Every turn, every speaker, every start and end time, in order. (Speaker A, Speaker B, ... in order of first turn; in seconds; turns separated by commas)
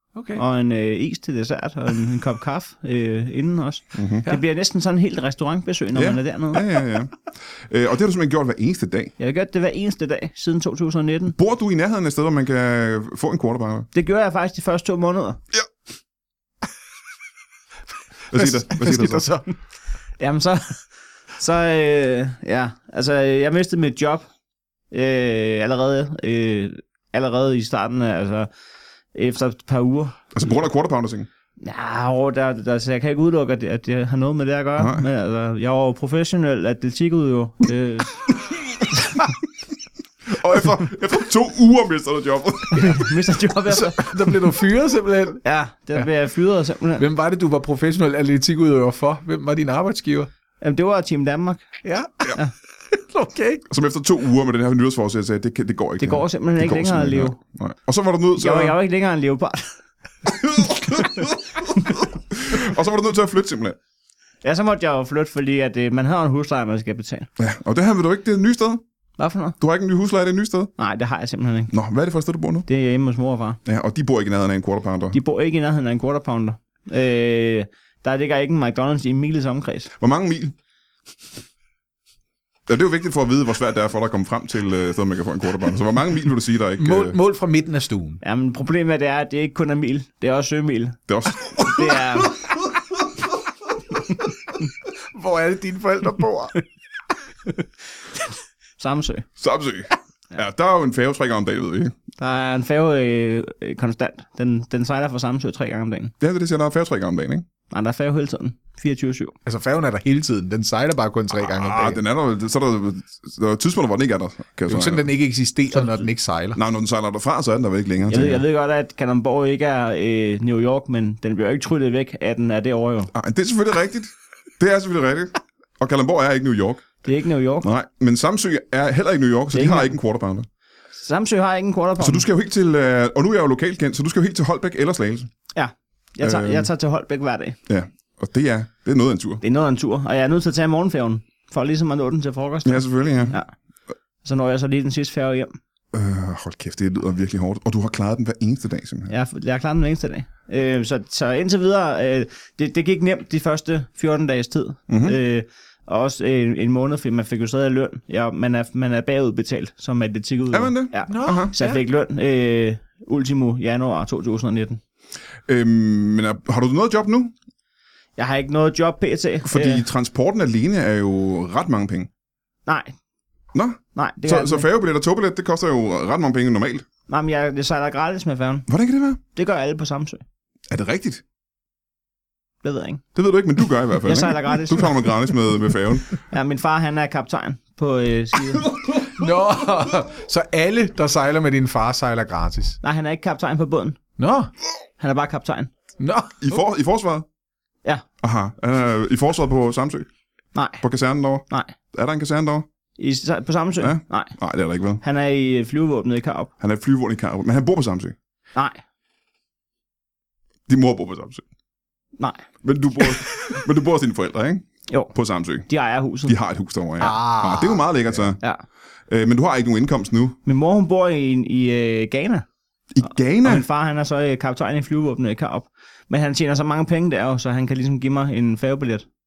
Speaker A: 0.1-0.4, Speaker B: 0.3-6.6, Speaker C: 3.9-4.2, Speaker C: 5.9-9.1, Speaker B: 9.2-11.3, Speaker C: 11.3-13.9, Speaker B: 13.9-15.4, Speaker C: 18.3-19.3, Speaker A: 18.3-19.5, Speaker B: 20.2-20.8, Speaker B: 21.4-24.2, Speaker B: 24.9-28.5, Speaker B: 29.1-30.2, Speaker C: 30.3-31.3, Speaker B: 31.6-38.3, Speaker C: 34.8-35.0, Speaker C: 40.3-43.0, Speaker B: 42.7-44.2, Speaker A: 43.7-45.4, Speaker B: 45.4-47.0, Speaker A: 47.0-50.3, Speaker B: 50.6-51.8, Speaker A: 51.8-53.6, Speaker C: 53.7-58.8, Speaker B: 56.0-57.4, Speaker B: 58.4-59.8, Speaker C: 60.3-63.8, Speaker B: 64.4-67.3, Speaker C: 67.4-68.8, Speaker B: 69.2-69.6, Speaker C: 69.6-70.7, Speaker B: 70.8-71.7, Speaker C: 71.7-72.7, Speaker B: 72.7-73.6, Speaker C: 73.6-75.2, Speaker B: 75.1-79.9, Speaker C: 80.0-80.5, Speaker C: 82.7-87.2, Speaker A: 86.8-88.2, Speaker B: 88.2-92.4, Speaker C: 91.1-92.0, Speaker A: 95.1-96.6, Speaker B: 98.8-99.2, Speaker C: 99.4-101.9, Speaker B: 102.2-106.1, Speaker C: 106.2-107.5, Speaker B: 107.7-109.3, Speaker A: 109.4-112.0, Speaker C: 111.3-115.1, Speaker A: 114.7-116.6, Speaker C: 116.5-118.4, Speaker B: 118.1-123.1, Speaker A: 118.1-118.4, Speaker C: 123.1-126.9, Speaker B: 127.0-127.7, Speaker C: 127.6-130.4, Speaker B: 129.5-129.9, Speaker B: 131.0-132.2, Speaker C: 132.0-135.3, Speaker B: 135.5-137.6, Speaker C: 136.2-136.7, Speaker C: 137.7-139.4, Speaker B: 139.4-143.5, Speaker C: 142.6-143.3, Speaker B: 144.2-145.6, Speaker C: 145.9-149.1, Speaker B: 149.1-164.8, Speaker C: 154.9-155.2, Speaker C: 160.5-161.5, Speaker A: 161.1-161.8, Speaker C: 165.5-167.3, Speaker B: 168.2-169.8, Speaker C: 169.4-172.1, Speaker B: 172.7-172.9, Speaker C: 173.5-176.8, Speaker B: 173.9-174.7, Speaker B: 177.1-178.7, Speaker C: 178.7-179.2, Speaker B: 179.3-180.2, Speaker C: 180.7-181.2, Speaker B: 182.6-183.0, Speaker C: 183.1-186.1, Speaker B: 184.0-185.1, Speaker B: 186.1-188.7, Speaker A: 188.9-192.8, Speaker B: 192.8-194.0, Speaker A: 194.2-194.5, Speaker B: 195.0-195.7, Speaker A: 196.0-196.6, Speaker C: 196.4-197.2, Speaker C: 198.2-200.1, Speaker B: 200.5-200.8, Speaker C: 200.8-202.6, Speaker B: 203.0-204.3, Speaker C: 203.8-205.0, Speaker B: 205.0-206.5, Speaker C: 206.6-208.1, Speaker B: 208.5-208.8, Speaker C: 210.7-211.4, Speaker B: 212.2-212.4, Speaker C: 212.6-215.7, Speaker B: 215.7-216.3, Speaker C: 216.2-218.4, Speaker A: 217.0-218.3, Speaker C: 219.1-220.4, Speaker B: 220.4-222.4, Speaker C: 222.9-223.6, Speaker B: 223.4-229.0